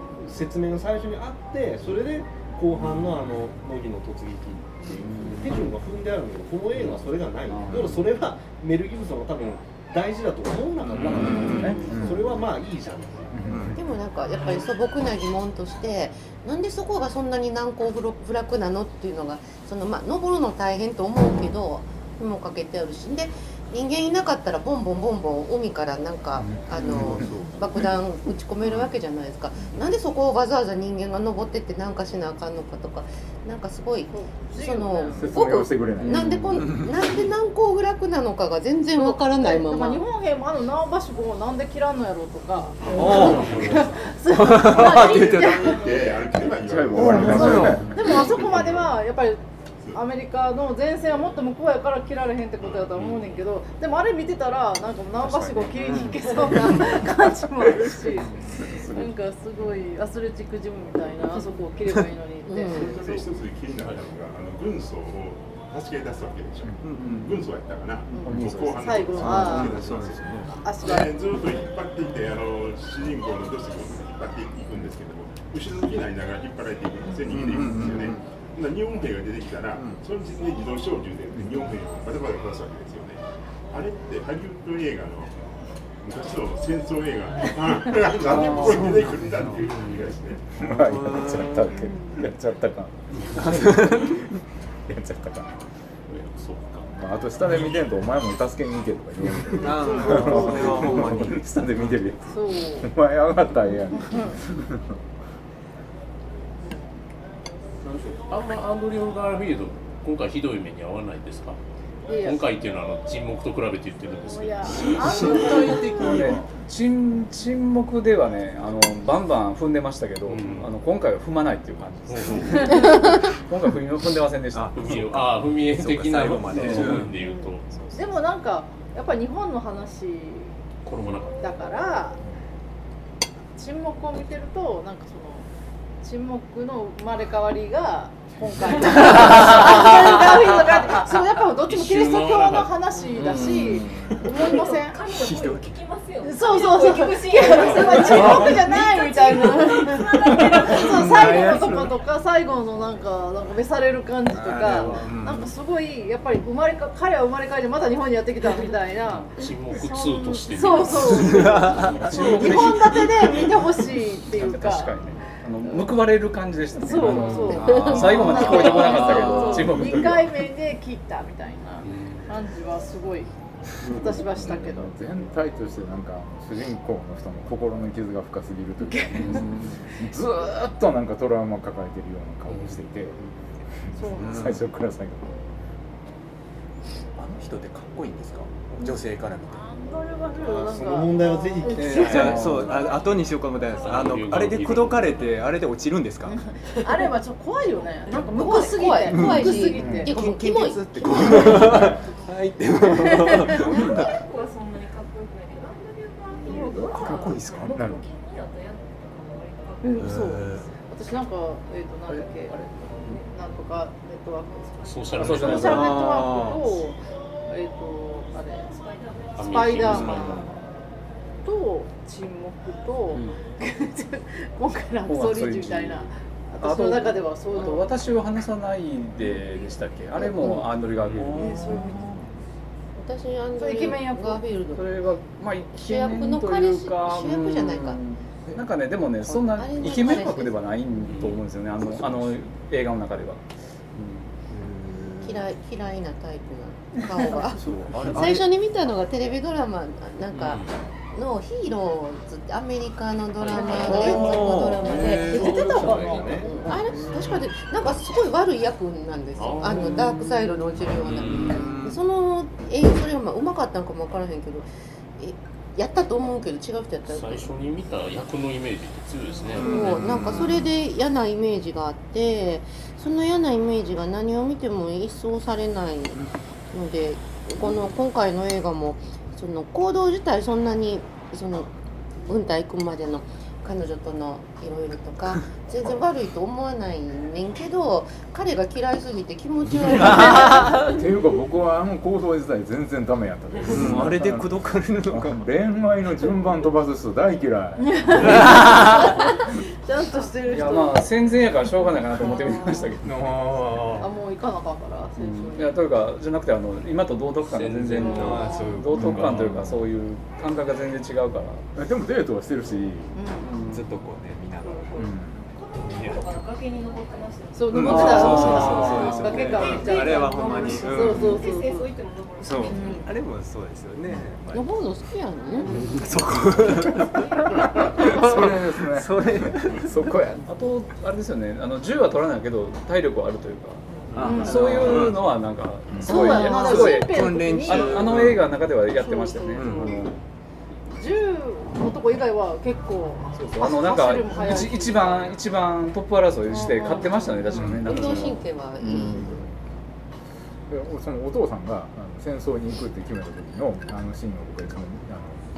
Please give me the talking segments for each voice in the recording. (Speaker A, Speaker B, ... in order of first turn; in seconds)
Speaker A: 0.2-13.5, 190.3-192.4, 255.2-256.7
Speaker B: 4.9-5.7, 7.5-8.1, 36.0-36.8, 55.2-55.7, 67.0-67.5, 68.2-69.6, 88.2-89.0, 115.3-125.2, 143.1-144.1, 161.9-163.6, 164.3-170.3, 179.1-179.9, 192.4-192.7, 212.5-213.1, 215.2-215.9, 223.1-223.4, 225.1-226.1, 226.6-232.2, 234.7-243.4, 243.9-244.3, 300.5-303.4, 305.1-311.6, 313.4-313.9, 317.8-319.5, 330.4-340.2, 343.3-349.4
Speaker C: 10.9-11.8, 13.5-13.8, 42.8-43.6, 44.3-45.8, 46.9-48.0, 55.8-56.8, 66.8-67.3, 68.3-70.7, 77.3-78.2, 79.7-80.0, 90.6-91.9, 93.3-94.1, 99.5-101.4, 114.8-116.5, 124.5-128.1, 143.8-144.3, 145.1-145.8, 147.6-148.7, 149.4-151.9, 154.3-155.5, 161.0-162.8, 167.9-170.0, 184.1-184.6, 187.2-189.6, 191.7-197.0, 199.0-204.2, 206.4-207.9, 210.0-210.7, 215.2-216.7, 219.8-220.5, 244.5-245.4, 247.5-248.4, 253.7-255.9, 256.6-257.3, 261.1-262.0, 269.5-270.7, 293.7-295.4, 298.2-299.0, 308.1-309.8, 313.6-315.1, 317.7-321.4, 322.4-324.8, 325.8-330.2, 334.2-335.2, 336.1-338.5, 339.6-340.0, 347.5-347.9
Speaker D: 11.1-12.2, 13.3-13.8, 26.4-27.6, 35.1-36.4, 46.6-47.9, 58.8-59.0, 88.3-88.6, 90.6-94.2, 94.9-95.6, 96.9-104.9, 173.8-183.2, 183.9-185.4, 192.3-192.5, 199.8-200.0, 201.2-202.0, 207.6-208.0, 290.0-298.4, 303.0-304.1, 308.9-309.4, 311.7-313.1, 315.0-315.4, 327.6-330.4, 350.7-355.4
Speaker E: 11.3-11.9, 34.1-35.4, 38.9-46.4, 47.5-58.4, 58.9-63.3, 68.1-69.9, 70.6-71.4, 99.8-101.1, 102.3-102.9, 104.0-104.3, 112.1-112.4, 114.2-116.3, 127.2-130.6, 131.4-132.2, 133.5-135.5, 136.0-145.0, 146.2-165.9, 166.8-173.3, 173.9-174.9, 183.9-184.3, 189.6-192.7, 196.3-200.2, 203.1-203.7, 209.8-218.7, 219.4-220.6, 221.4-227.9, 231.2-232.0, 233.6-234.4, 253.5-256.7, 297.8-301.1, 302.1-302.9, 304.0-305.7, 307.9-308.4, 313.1-313.5, 317.5-321.9, 322.7-323.1, 325.6-325.9, 334.2-335.0, 336.0-338.3, 338.9-339.9, 340.9-345.3, 346.6-347.7
Speaker F: 13.8-40.0, 62.5-62.9, 167.6-168.2, 198.1-201.9, 230.2-230.7, 231.3-232.0, 233.0-234.8, 235.7-238.0, 239.3-240.6, 245.2-255.9, 256.4-267.5, 269.6-276.2, 276.7-281.7, 282.3-290.8, 324.5-325.7, 346.5-349.4
Speaker G: 42.8-48.0, 62.7-90.5
Speaker H: 43.1-43.9, 52.6-53.3, 63.7-64.1, 89.6-90.2, 96.1-96.9, 107.8-111.6, 112.2-115.7, 120.2-120.7, 122.1-123.2, 124.8-127.7, 130.8-131.5, 141.6-142.8, 154.7-155.1, 159.1-162.3, 171.8-172.4, 193.8-195.3, 214.8-215.9, 219.4-220.5, 231.0-231.3, 241.0-241.4, 250.3-250.8, 253.4-254.2, 255.7-256.3, 259.4-260.0, 260.8-261.7, 267.1-270.6, 307.4-308.5, 334.1-335.3
Speaker I: 144.4-152.0, 203.8-210.2, 218.6-220.1, 308.3-308.7, 314.6-323.1